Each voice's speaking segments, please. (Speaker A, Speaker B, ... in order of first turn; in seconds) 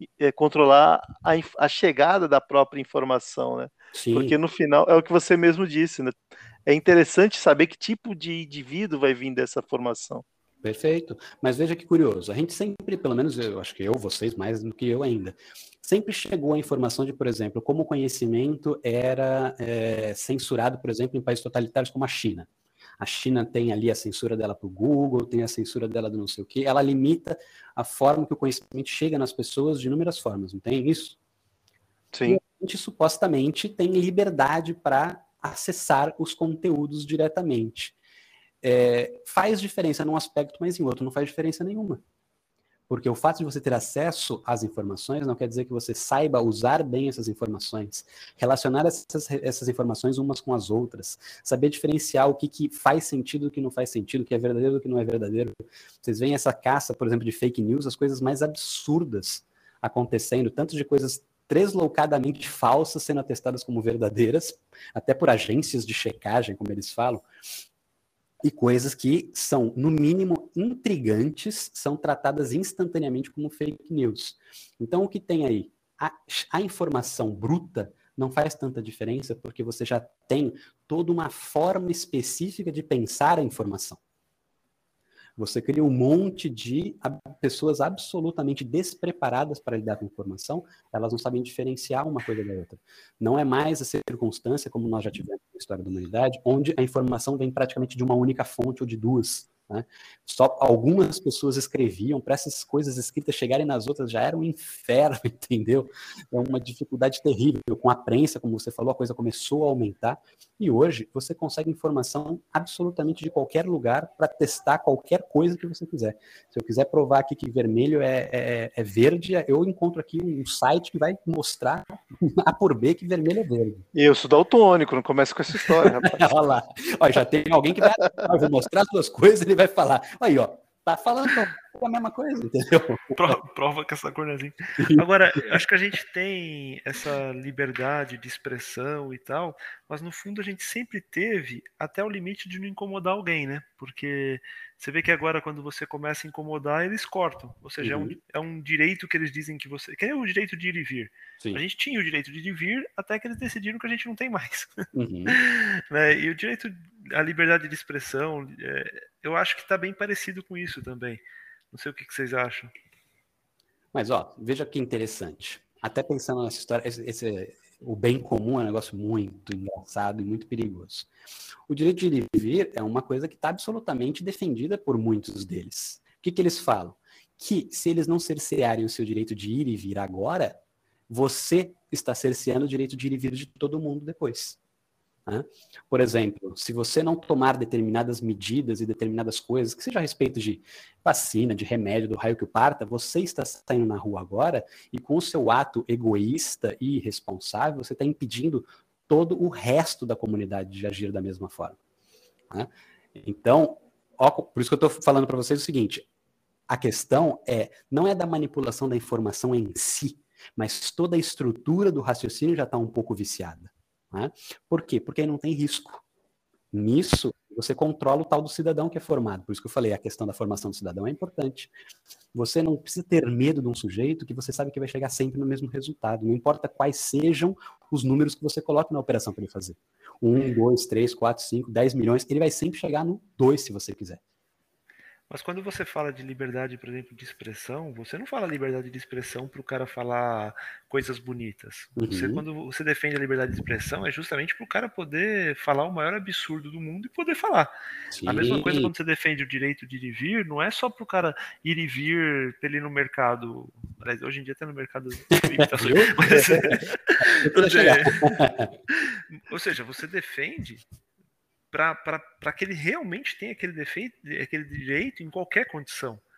Speaker A: 0.2-6.1, 6.7-10.2, 32.1-32.4, 123.9-126.3, 128.0-128.3
Speaker B: 3.9-4.3, 10.6-22.5, 23.0-31.2, 32.2-38.0, 38.6-42.0, 42.9-67.2, 68.4-84.0, 85.4-123.8, 125.8-133.4, 134.8-135.0, 147.8-148.2, 154.9-155.4, 163.9-171.1, 171.7-184.6, 185.3-201.8, 202.5-206.1, 206.7-216.0, 216.7-221.7, 222.3-234.2, 242.0-242.4, 248.1-248.9, 255.6-256.8, 257.4-258.7
Speaker C: 133.2-162.7, 235.3-247.7, 248.2-258.4, 259.0-260.8, 261.7-266.2